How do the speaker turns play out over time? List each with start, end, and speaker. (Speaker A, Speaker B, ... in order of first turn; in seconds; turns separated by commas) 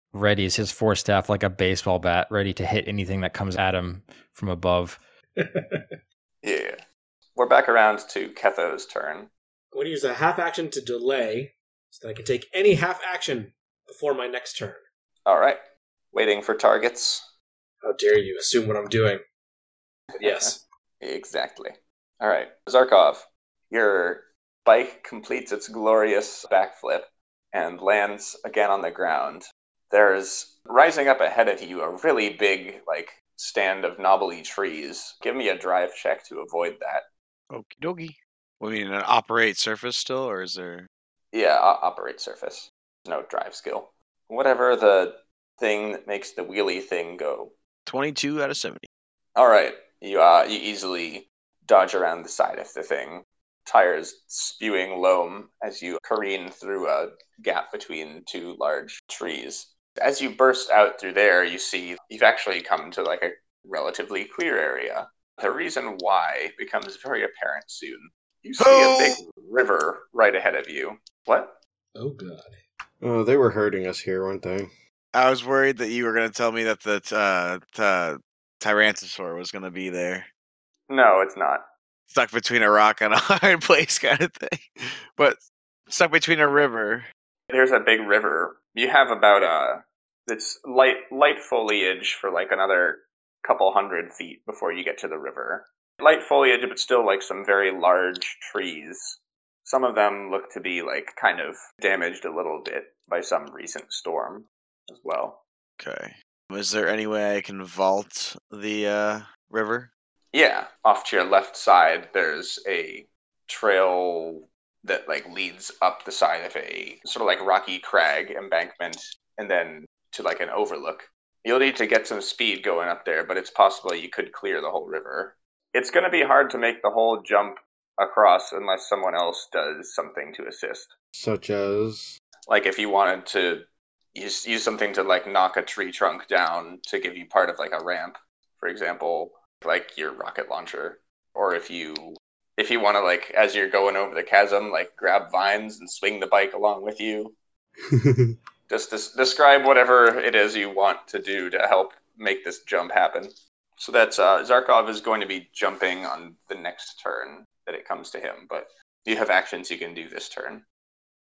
Speaker A: 0.1-5.0, Speaker B: 5.4-6.0, Speaker C: 6.4-6.8, Speaker C: 7.3-9.3, Speaker B: 9.7-14.8, Speaker C: 15.2-15.6, Speaker C: 16.1-17.3, Speaker B: 17.8-19.2, Speaker B: 20.2-20.6, Speaker C: 20.2-37.0, Speaker D: 37.5-40.9, Speaker C: 41.3-47.5, Speaker D: 47.9-48.9, Speaker C: 49.4-71.6, Speaker D: 68.6-69.2, Speaker B: 72.0-72.6, Speaker E: 73.0-74.7, Speaker D: 75.1-80.3, Speaker C: 80.9-81.7, Speaker D: 82.1-84.6, Speaker D: 85.2-87.0, Speaker C: 87.5-105.4, Speaker D: 105.8-109.9, Speaker C: 110.3-130.9, Speaker E: 131.1-132.2, Speaker C: 132.5-147.3, Speaker E: 147.9-148.3, Speaker C: 148.7-160.6